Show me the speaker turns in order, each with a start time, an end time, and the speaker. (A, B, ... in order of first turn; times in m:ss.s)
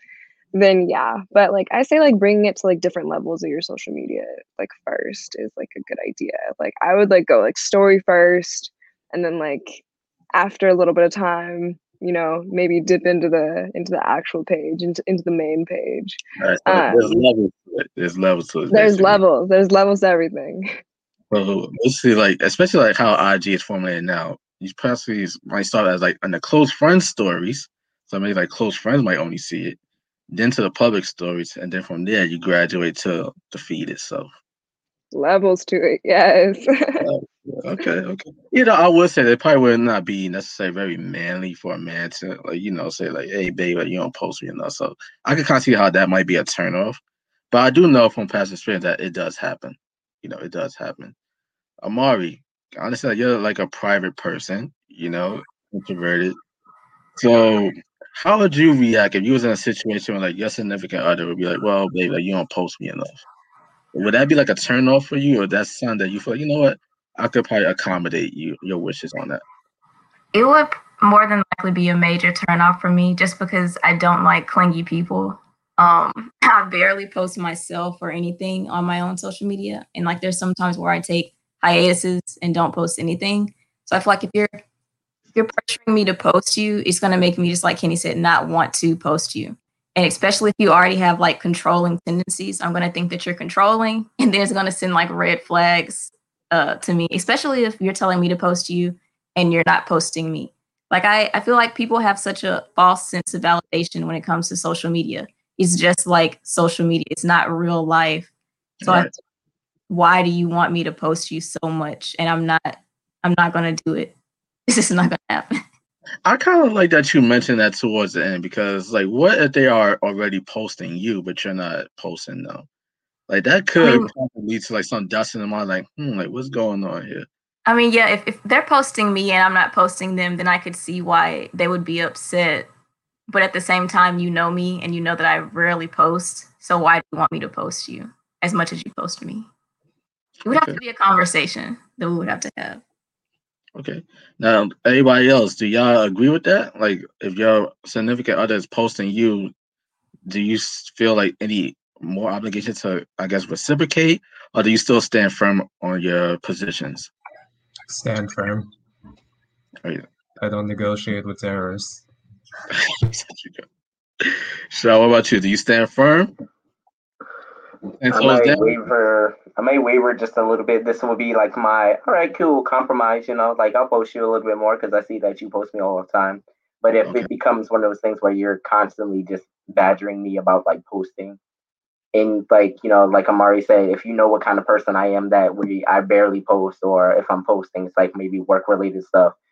0:00.5-0:09.8 A
0:10.3-0:17.2 A
0:16.4-0:19.2 B
0:18.7-0:20.7 A
0:21.3-0:29.8 B
0:30.3-0:34.3 B
0:35.1-0:37.0 A
0:37.0-0:47.0 B
0:47.5-0:51.1 B
0:51.8-0:56.4 B
0:57.2-1:03.2 B
1:03.9-1:09.4 B
1:10.3-1:24.6 C
1:25.3-1:48.3 C
1:48.8-1:49.1 B
1:48.8-1:49.1 C
1:49.9-1:54.1 C
1:54.7-1:55.6 C
1:56.2-2:02.7 B
2:03.3-2:07.3 B
2:03.8-2:04.1 C
2:07.7-2:12.7 C
2:13.3-2:19.5 C
2:20.4-2:22.8 C
2:20.5-2:20.8 B
2:23.8-2:29.5 B
2:30.3-2:37.1 B
2:37.9-2:38.7 D
2:40.4-2:42.0 D
2:42.7-2:43.6 B
2:44.2-2:46.3 B
2:48.0-2:48.8 B
2:48.1-3:01.4 E
3:02.1-3:09.3 E